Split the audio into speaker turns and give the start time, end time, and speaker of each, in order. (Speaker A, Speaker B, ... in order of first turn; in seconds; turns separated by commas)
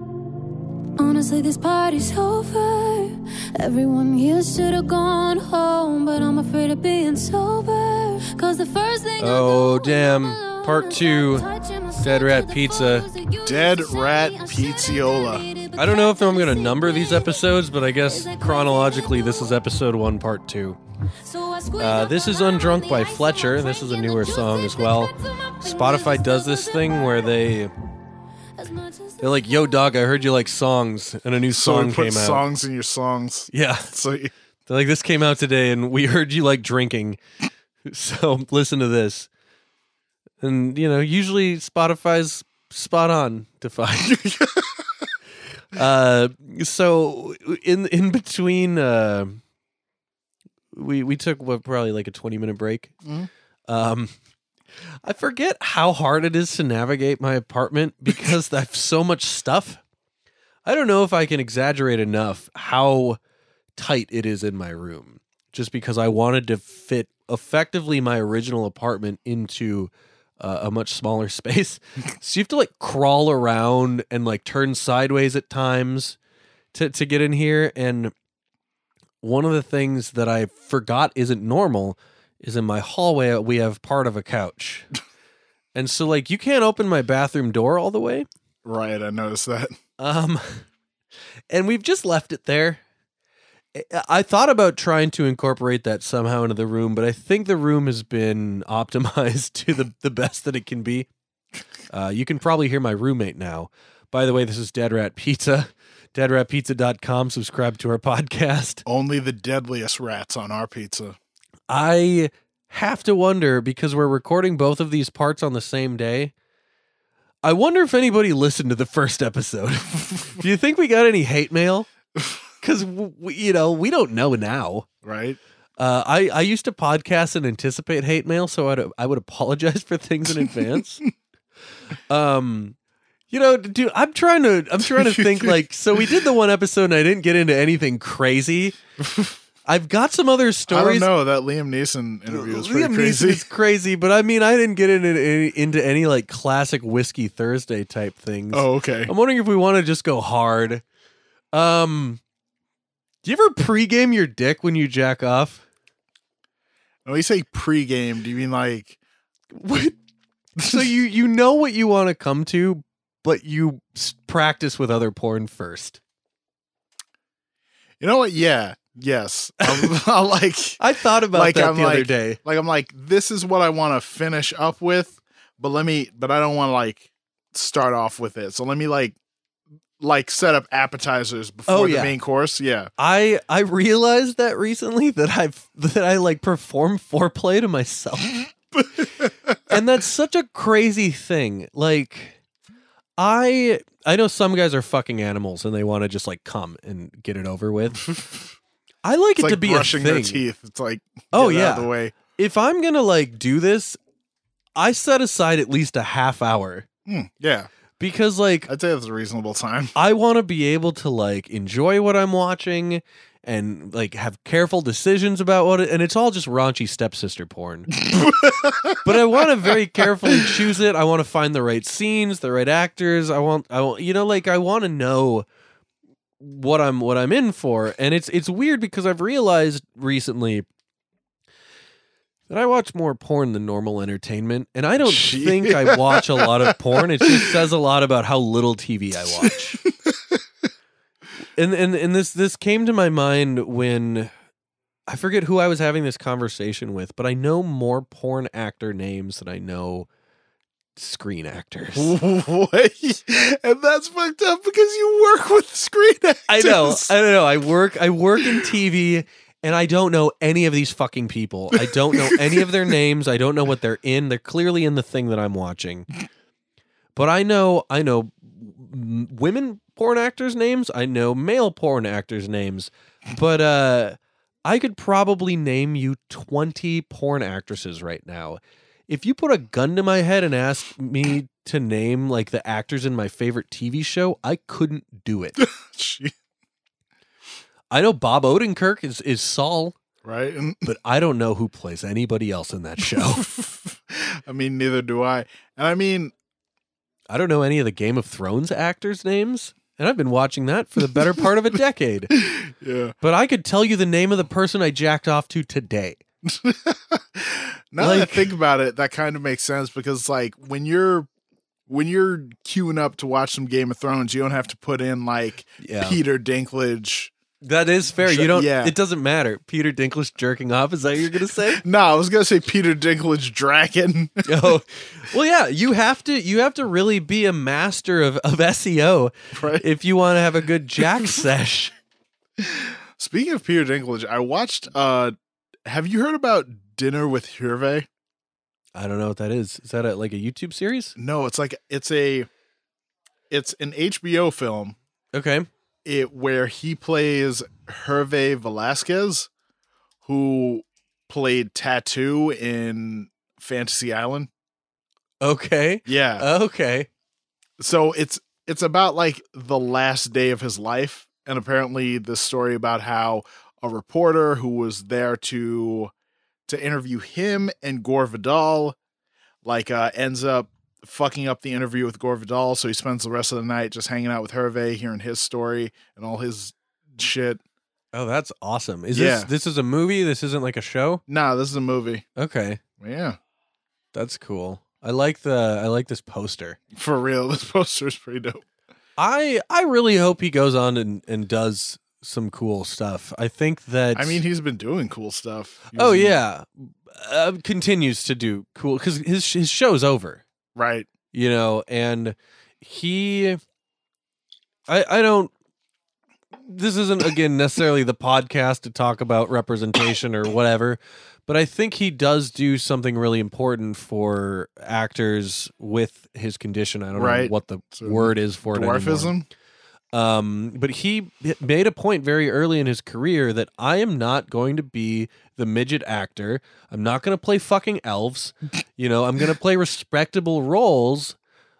Speaker A: 1.0-19.6, Speaker B: 9.2-11.5, Speaker B: 12.0-13.1, Speaker C: 13.4-15.5, Speaker B: 15.8-20.8, Speaker A: 21.2-27.3, Speaker B: 21.8-27.7, Speaker A: 28.6-29.6, Speaker B: 29.2-32.5, Speaker C: 31.5-34.3, Speaker B: 33.5-33.9, Speaker B: 34.7-37.2, Speaker B: 37.9-39.3, Speaker B: 40.4-44.2, Speaker C: 44.1-45.1, Speaker B: 45.7-49.4, Speaker B: 50.7-52.9, Speaker C: 53.0-53.3, Speaker B: 53.7-54.1, Speaker B: 55.0-59.8, Speaker B: 60.7-63.2, Speaker B: 63.8-76.2, Speaker B: 76.7-78.1, Speaker B: 79.2-84.9, Speaker B: 85.8-88.3, Speaker C: 88.7-89.8, Speaker B: 90.0-90.7, Speaker B: 91.5-92.8, Speaker B: 93.8-101.1, Speaker B: 101.9-108.8, Speaker C: 108.8-111.2, Speaker B: 111.7-116.3, Speaker B: 117.4-121.9, Speaker B: 122.6-124.9, Speaker C: 125.0-125.4, Speaker B: 125.8-131.1, Speaker B: 132.1-132.8, Speaker B: 133.3-138.8, Speaker C: 134.8-135.6, Speaker C: 139.0-139.4, Speaker B: 139.7-141.1, Speaker C: 140.7-143.4, Speaker B: 142.3-150.8, Speaker C: 148.5-149.1, Speaker B: 151.5-152.2, Speaker B: 153.2-155.6, Speaker C: 157.1-159.0, Speaker B: 159.5-159.9, Speaker B: 160.6-166.0, Speaker C: 168.0-170.8, Speaker B: 169.6-169.9, Speaker B: 170.8-172.4, Speaker C: 171.3-179.2, Speaker C: 180.0-182.9, Speaker B: 181.7-182.2, Speaker B: 183.0-188.4, Speaker C: 188.8-189.8, Speaker B: 189.7-192.4, Speaker B: 193.2-198.1, Speaker B: 199.0-200.4, Speaker C: 199.4-202.2, Speaker B: 201.3-204.0, Speaker B: 204.8-206.9, Speaker C: 207.1-207.7, Speaker B: 208.0-208.7, Speaker C: 208.7-209.9, Speaker B: 209.9-218.0, Speaker C: 218.0-219.7, Speaker B: 219.0-225.5, Speaker B: 226.4-230.7, Speaker B: 232.5-239.8, Speaker C: 235.0-237.5, Speaker C: 239.4-240.4, Speaker B: 241.6-244.3, Speaker B: 245.1-250.1, Speaker B: 251.0-252.1, Speaker C: 252.0-257.1, Speaker B: 256.5-266.1, Speaker C: 258.4-258.7, Speaker C: 261.7-262.8, Speaker B: 267.1-285.6, Speaker C: 285.6-286.3, Speaker B: 287.9-290.0, Speaker C: 290.2-290.9, Speaker B: 290.9-293.5, Speaker C: 293.1-296.3, Speaker B: 297.3-302.3, Speaker C: 302.4-303.1, Speaker B: 303.2-306.2, Speaker C: 306.4-311.3, Speaker B: 308.0-308.5, Speaker C: 311.9-317.3, Speaker B: 315.8-316.2, Speaker B: 317.6-321.8, Speaker C: 318.2-318.9, Speaker C: 321.8-324.4, Speaker B: 324.5-331.9, Speaker C: 329.5-329.8, Speaker C: 332.6-338.1, Speaker B: 338.9-341.1, Speaker C: 341.2-342.5, Speaker C: 343.5-345.0, Speaker B: 345.3-345.7, Speaker C: 346.1-349.5, Speaker C: 350.2-354.5, Speaker B: 355.4-357.1, Speaker C: 356.1-356.5, Speaker C: 357.8-366.1, Speaker C: 366.7-369.0, Speaker C: 369.6-377.6, Speaker B: 378.1-381.2, Speaker C: 379.1-379.5, Speaker C: 381.3-382.3, Speaker B: 382.4-382.8, Speaker C: 383.0-383.4, Speaker B: 384.1-386.8, Speaker C: 386.9-388.6, Speaker B: 389.2-394.4, Speaker C: 394.1-396.4, Speaker B: 395.9-400.4, Speaker C: 400.8-401.1, Speaker B: 401.3-403.6, Speaker B: 404.9-405.5, Speaker B: 406.6-419.3, Speaker C: 417.1-419.5, Speaker B: 420.1-431.4